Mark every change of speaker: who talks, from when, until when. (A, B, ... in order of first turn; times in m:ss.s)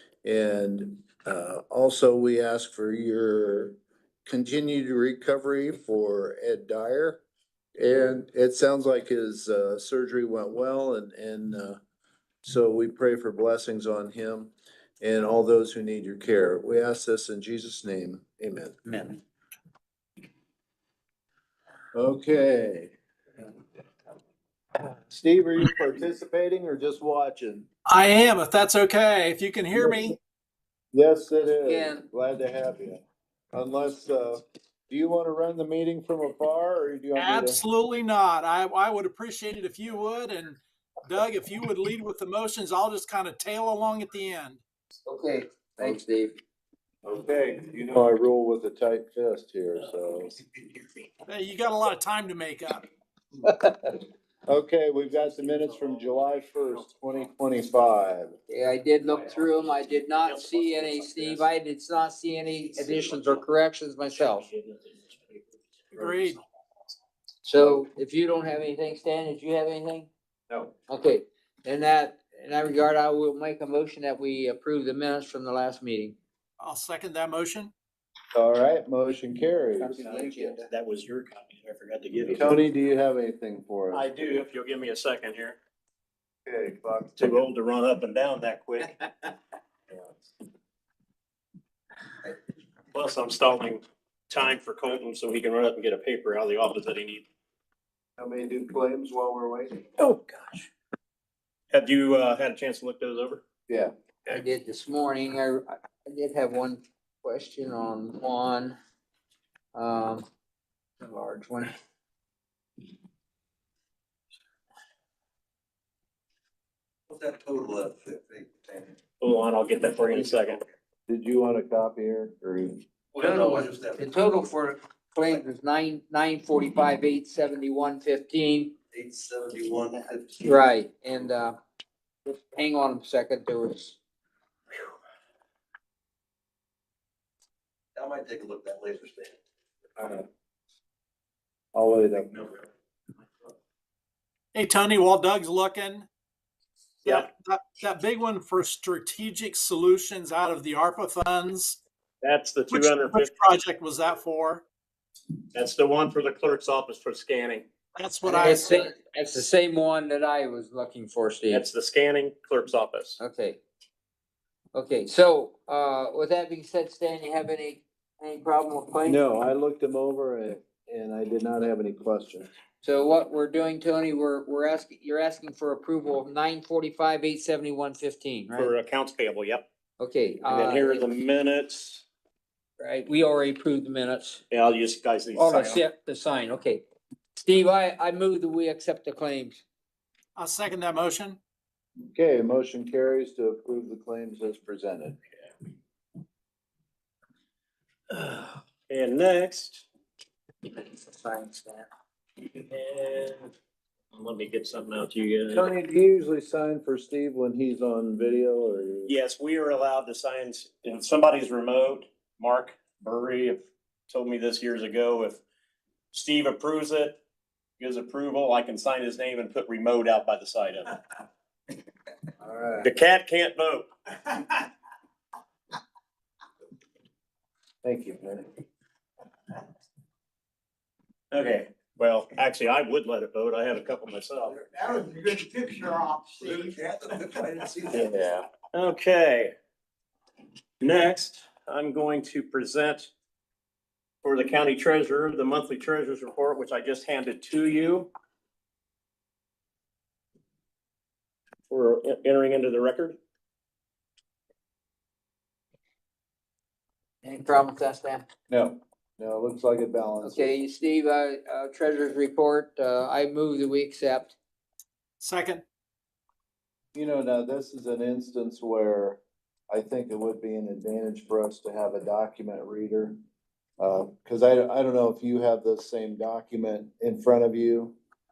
0:00.2-0:07.2 A
0:07.8-0:11.8 A
0:12.4-0:18.8 A
0:21.9-0:22.9 A
0:25.1-0:27.7 A
0:27.9-0:30.2 B
0:30.9-0:33.0 A
0:31.4-0:32.0 C
0:33.5-0:37.6 A
0:37.2-0:44.6 B
0:45.0-0:46.4 C
0:47.0-0:50.3 A
0:51.3-0:52.9 B
0:54.5-0:58.3 A
0:58.5-1:04.5 C
1:00.2-1:01.5 D
1:02.9-1:03.4 D
1:06.0-1:06.4 B
1:07.4-1:10.1 C
1:10.9-1:16.2 C
1:16.6-1:17.7 B
1:18.3-1:20.6 A
1:19.8-1:20.6 C
1:20.0-1:22.6 D
1:22.2-1:24.0 A
1:23.9-1:25.6 D
1:26.4-1:27.2 A
1:27.2-1:29.3 D
1:32.9-1:37.2 D
1:38.2-1:39.9 A
1:41.7-1:43.4 D
1:44.3-1:48.8 C
1:49.7-1:50.2 C
1:51.0-1:51.7 C
1:57.1-1:58.9 E
1:59.2-2:00.6 D
2:01.1-2:02.8 A
2:03.2-2:08.7 C
2:03.2-2:04.0 E
2:08.9-2:10.4 E
2:10.4-2:11.6 C
2:12.3-2:14.0 C
2:18.0-2:19.3 E
2:20.0-2:20.3 A
2:21.7-2:22.7 A
2:24.5-2:26.1 B
2:27.0-2:31.8 B
2:32.2-2:33.3 D
2:32.7-2:34.6 B
2:35.5-2:37.6 D
2:38.0-2:38.9 B
2:38.2-2:41.6 C
2:41.5-2:43.2 D
2:43.2-2:43.6 C
2:44.7-2:49.2 C
2:49.0-2:52.5 A
2:52.8-2:58.7 C
2:58.5-2:59.6 D
3:00.0-3:01.1 C
3:00.5-3:02.0 D
3:02.8-3:04.4 C
3:04.5-3:05.8 D
3:05.3-3:06.8 C
3:07.4-3:09.6 C
3:10.4-3:11.4 B
3:12.1-3:15.2 A
3:18.1-3:19.8 D
3:20.9-3:21.8 C
3:22.5-3:23.5 D
3:24.1-3:25.7 D
3:25.5-3:29.1 A
3:29.0-3:35.4 D
3:36.1-3:37.2 D
3:37.8-3:40.9 D
3:42.4-3:42.9 A
3:42.8-3:44.4 D
3:47.8-3:48.5 A
3:51.3-3:54.6 D
3:54.7-3:58.0 E
3:57.9-3:59.5 D
4:00.8-4:03.1 D
4:04.2-4:08.1 D
4:11.7-4:13.2 D
4:17.2-4:18.2 C
4:18.5-4:20.6 A
4:20.2-4:24.4 C
4:25.2-4:25.6 B
4:26.9-4:33.2 A
4:33.8-4:38.0 A